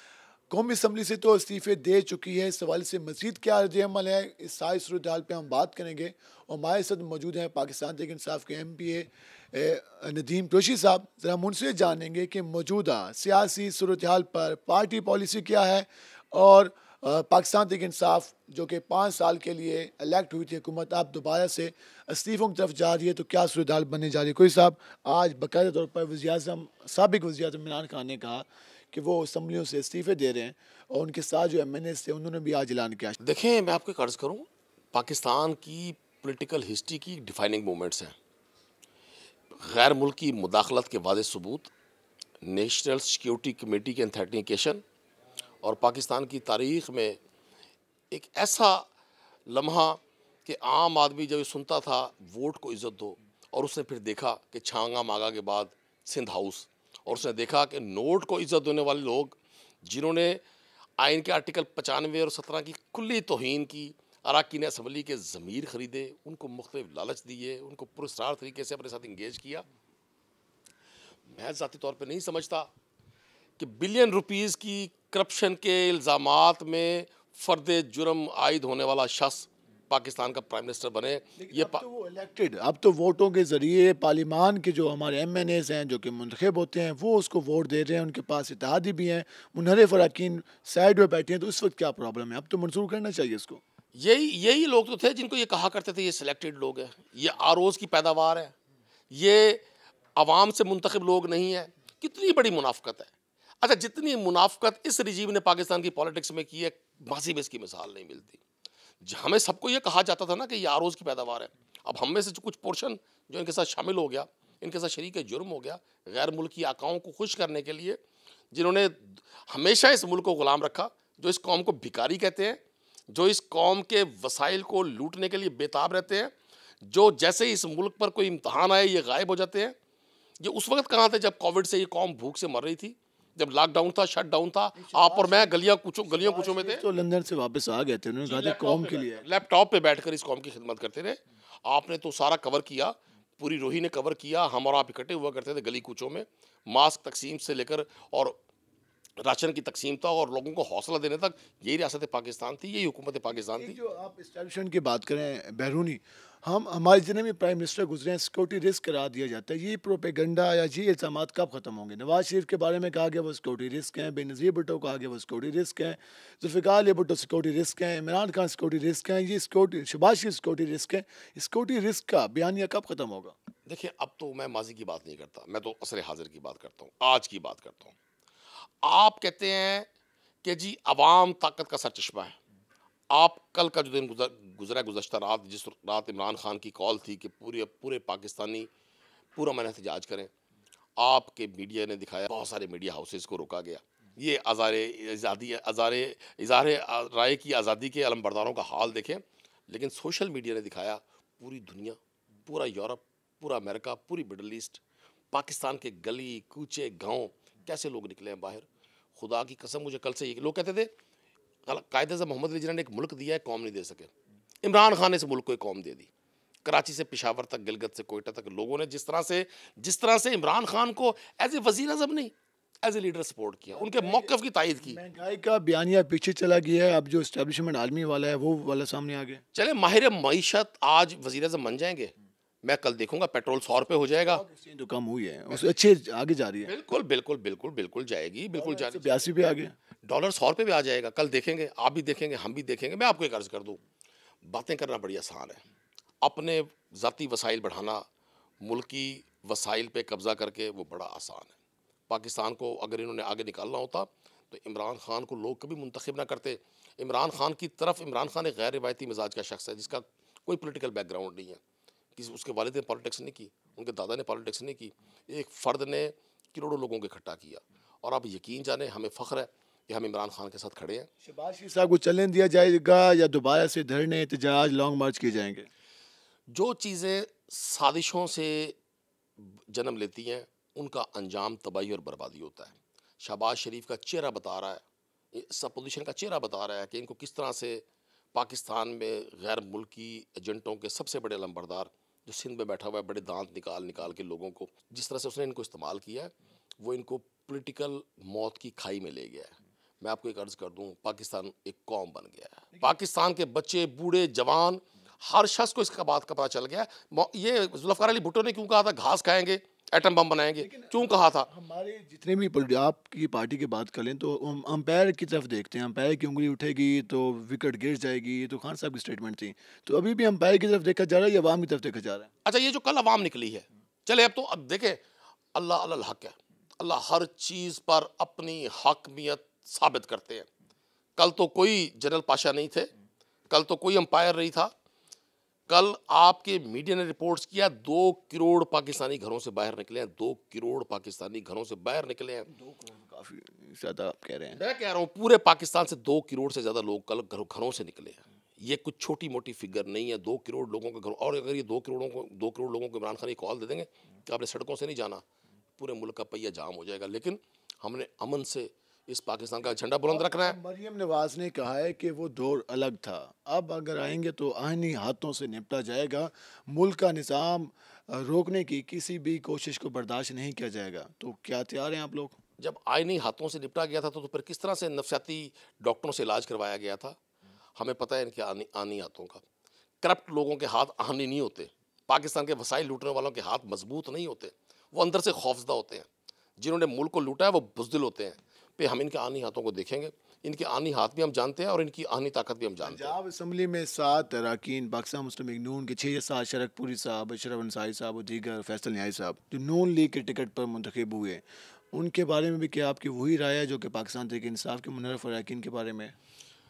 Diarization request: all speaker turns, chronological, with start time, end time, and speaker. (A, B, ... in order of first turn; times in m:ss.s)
0:00.5-0:33.2 A
0:33.2-0:38.2 B
0:39.6-0:41.7 B
0:42.4-0:44.8 B
0:45.6-0:47.2 B
0:48.1-0:48.9 B
0:49.5-1:00.4 B
1:01.0-1:09.6 B
1:11.3-1:12.7 B
1:13.6-1:21.8 B
1:21.4-1:33.6 A
1:34.0-1:38.5 B
1:39.1-1:39.6 B
1:40.2-1:48.4 B
1:49.0-1:58.0 B
1:58.5-2:02.6 B
2:03.1-2:06.3 B
2:06.8-2:09.8 B
2:10.4-2:16.8 B
2:14.8-2:19.2 A
2:18.2-2:28.4 B
2:29.2-2:33.8 B
2:33.3-2:53.4 A
2:53.7-2:58.0 B
2:58.8-2:59.9 B
3:00.4-3:02.4 B
3:03.1-3:08.7 B
3:09.4-3:10.3 B
3:11.0-3:30.9 B
3:31.7-3:34.1 B
3:34.6-3:36.1 B
3:36.6-3:45.0 B
3:43.7-3:49.4 A
3:49.5-3:52.1 B
3:52.6-3:54.4 B
3:54.3-3:56.7 A
3:56.7-3:59.4 B
3:58.6-3:59.8 A
4:00.1-4:03.8 B
4:04.4-4:05.6 B
4:06.2-4:08.0 B
4:08.6-4:11.5 B
4:12.1-4:21.6 B
4:22.2-4:31.1 B
4:31.2-4:35.7 A
4:36.5-4:38.8 B
4:39.4-5:11.5 B
5:10.6-5:22.3 A
5:22.4-5:25.0 B
5:25.5-5:30.5 B
5:31.2-5:32.9 B
5:33.5-5:34.7 B
5:35.7-5:42.5 B
5:42.5-5:44.6 A
5:44.5-5:55.2 B
5:55.8-6:00.6 B
6:00.1-6:12.4 A
6:12.6-6:17.2 B
6:17.8-6:19.4 B
6:20.0-6:26.1 B
6:26.6-6:33.2 B
6:32.8-6:46.2 A